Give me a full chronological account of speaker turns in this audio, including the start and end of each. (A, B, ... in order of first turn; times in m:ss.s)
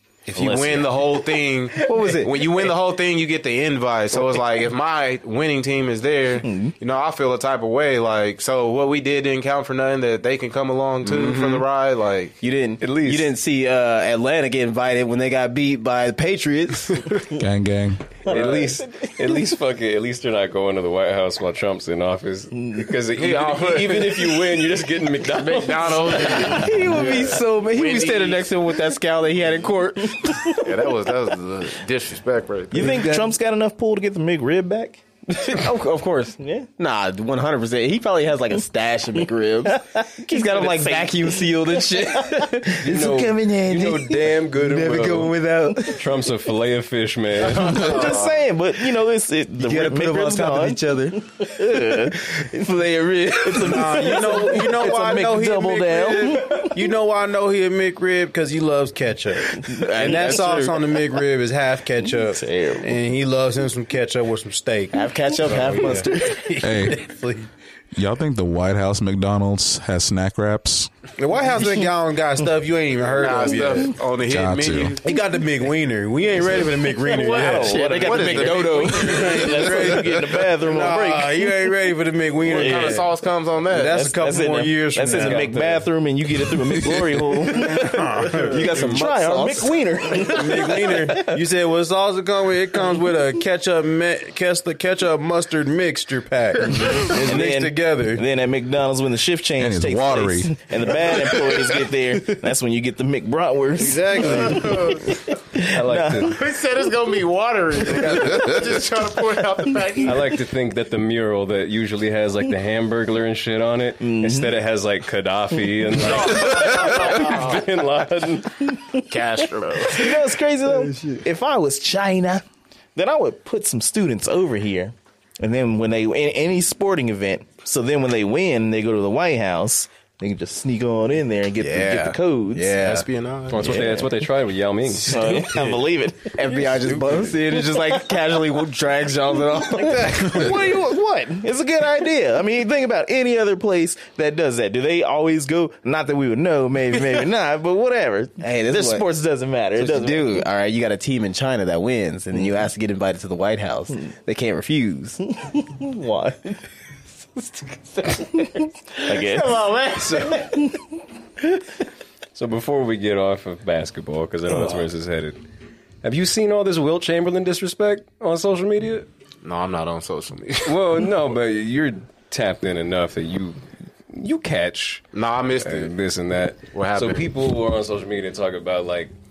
0:00.3-0:12.4 A
0:00.3-0:01.4 B
0:01.8-0:02.4 C
0:06.4-0:06.8 B
0:12.4-0:17.3 C
0:12.8-0:13.3 D
0:17.3-0:18.1 E
0:18.3-0:27.4 D
0:18.3-0:19.3 B
0:18.3-0:18.8 C
0:23.1-0:24.6 A
0:25.3-0:28.5 A
0:26.5-0:30.6 C
0:30.5-0:33.2 A
0:32.7-0:35.0 B
0:32.8-0:33.3 C
0:35.4-0:46.1 C
0:36.4-0:36.7 B
0:39.7-0:41.4 B
0:42.8-0:47.9 D
0:47.5-0:48.4 A
0:47.5-0:52.5 B
0:47.8-0:48.3 C
0:49.6-0:54.1 C
0:53.4-0:56.8 B
0:53.6-1:07.5 F
0:59.6-1:00.6 B
0:59.8-1:00.8 C
1:02.0-1:02.9 B
1:04.9-1:06.3 C
1:06.6-1:07.0 E
1:07.9-1:10.9 E
1:11.2-1:14.0 F
1:13.1-1:15.0 A
1:14.3-1:15.0 E
1:15.0-1:17.9 F
1:17.0-1:21.5 B
1:17.2-1:19.7 A
1:17.6-1:19.3 C
1:19.0-1:23.1 F
1:22.4-1:24.1 A
1:22.5-1:23.0 B
1:23.7-1:25.5 F
1:23.8-1:31.3 B
1:25.1-1:25.9 D
1:27.5-1:28.7 F
1:27.8-1:30.6 C
1:30.2-1:38.2 F
1:37.2-1:46.4 B
1:39.6-1:40.6 E
1:43.8-1:45.0 F
1:44.6-1:45.0 A
1:45.6-1:46.4 D
1:46.2-1:50.4 A
1:50.0-1:58.8 D
1:54.0-1:54.5 B
1:56.0-1:57.7 A
1:58.9-2:00.2 A
1:59.9-2:02.4 B
2:03.0-2:12.7 B
2:11.6-2:13.1 C
2:12.8-2:13.8 A
2:13.5-2:15.4 D
2:13.6-2:14.2 B
2:15.0-2:16.5 B
2:16.4-2:20.7 C
2:20.1-2:30.4 B
2:28.4-2:29.1 C
2:29.8-2:35.2 C
2:35.3-2:36.6 B
2:38.0-2:39.6 B
2:39.1-2:40.6 C
2:40.0-2:40.5 D
2:40.4-2:40.8 B
2:42.4-2:45.4 D
2:46.0-2:49.1 D
2:49.4-2:50.8 A
2:50.6-2:53.6 D
2:54.1-2:55.1 D
2:55.1-2:56.0 A
2:55.6-2:59.1 D
2:56.7-2:57.3 A